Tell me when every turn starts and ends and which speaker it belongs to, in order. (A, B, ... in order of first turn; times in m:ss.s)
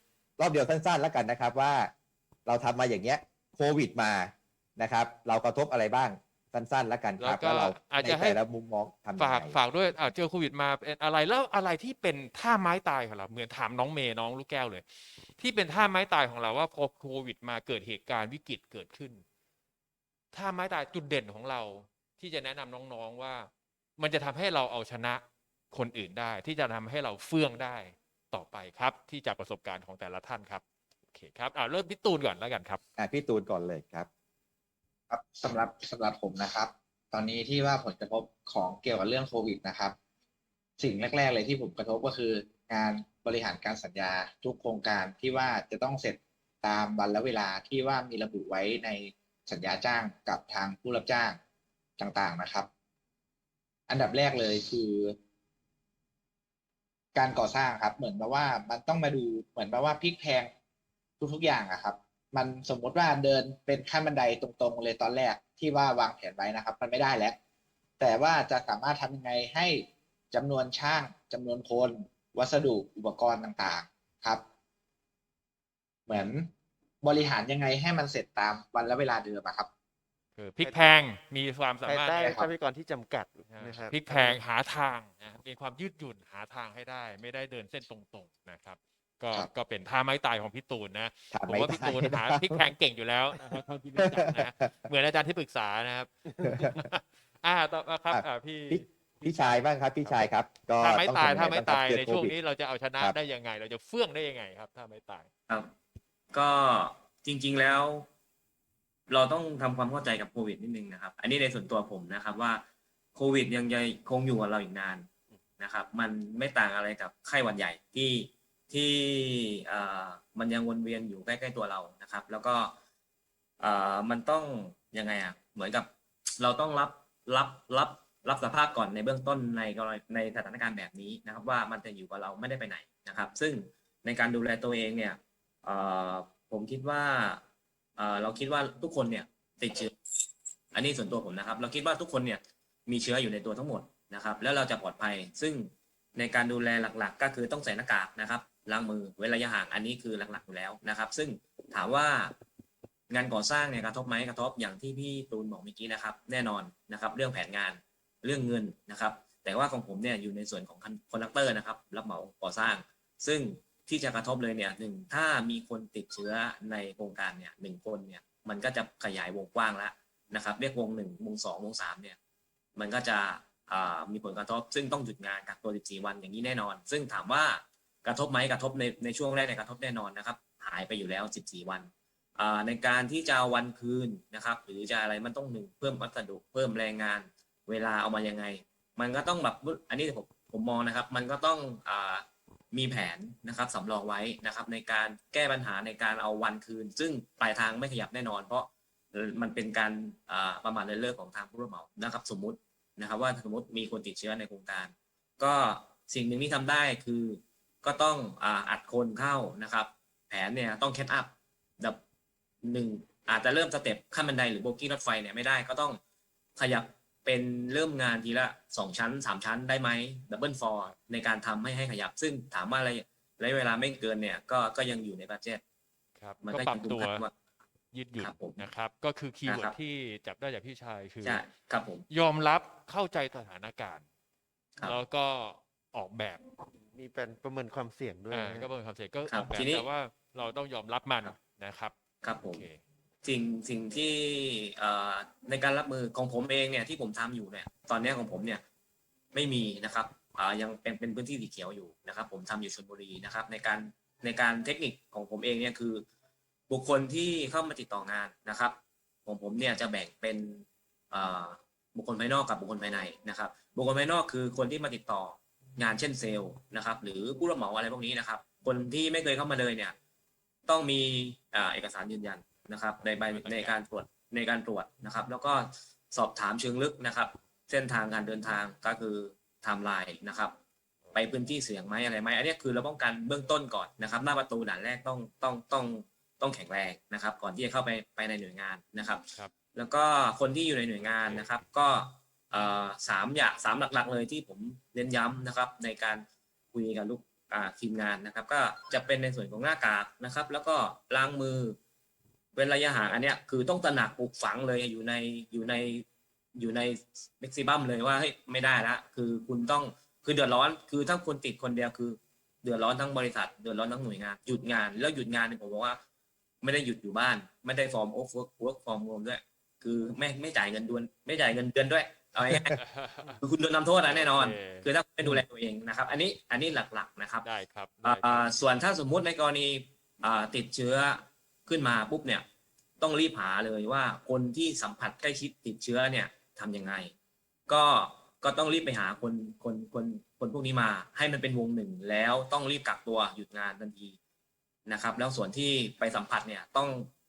0:00.4-0:01.9 A
0:02.5-0:09.6 A
0:07.2-0:08.4 B
0:09.2-0:19.2 B
0:20.3-0:32.8 B
0:33.0-0:34.1 A
0:35.1-0:39.9 C
0:40.8-0:51.4 C
0:52.0-0:52.7 C
0:53.9-0:55.1 C
0:57.1-1:00.5 C
1:01.2-1:07.4 C
1:08.0-1:14.4 C
1:16.1-1:16.5 C
1:17.0-1:19.7 C
1:20.4-1:22.4 B
1:20.6-1:20.9 D
1:21.8-1:24.4 D
1:23.5-1:45.3 B
1:31.3-1:32.6 A
1:34.0-1:34.5 A
1:36.4-1:36.8 A
1:38.1-1:42.3 A
1:46.3-1:48.1 E
1:49.1-1:52.6 E
1:53.1-2:02.7 E
2:03.6-2:17.4 E
2:18.0-2:19.9 E
2:20.7-2:32.3 E
2:33.1-2:52.2 E
2:52.8-3:32.0 E
3:32.6-3:36.0 E
3:36.6-3:45.6 E
3:46.2-3:47.2 B
3:46.4-3:47.3 E
3:47.9-3:51.4 B
3:48.2-3:48.6 E
3:49.4-3:49.8 E
3:51.2-3:52.0 E
3:52.1-3:54.0 B
3:54.8-3:56.4 B
3:56.8-3:58.7 D
3:58.3-4:02.8 B
3:59.3-3:59.8 E
4:02.2-4:02.6 E
4:03.2-4:08.6 E
4:09.3-4:16.0 E
4:16.7-4:29.9 E
4:30.7-4:40.6 E
4:33.0-4:33.8 B
4:41.1-5:01.8 E
4:51.0-4:51.5 B
5:02.5-5:16.0 E
5:16.6-5:22.8 E
5:22.8-5:23.4 B
5:23.4-5:27.5 E
5:24.1-5:24.9 B
5:27.4-5:28.5 B
5:28.0-5:32.4 E
5:33.0-5:37.1 E
5:37.7-5:44.2 E
5:44.9-5:47.1 E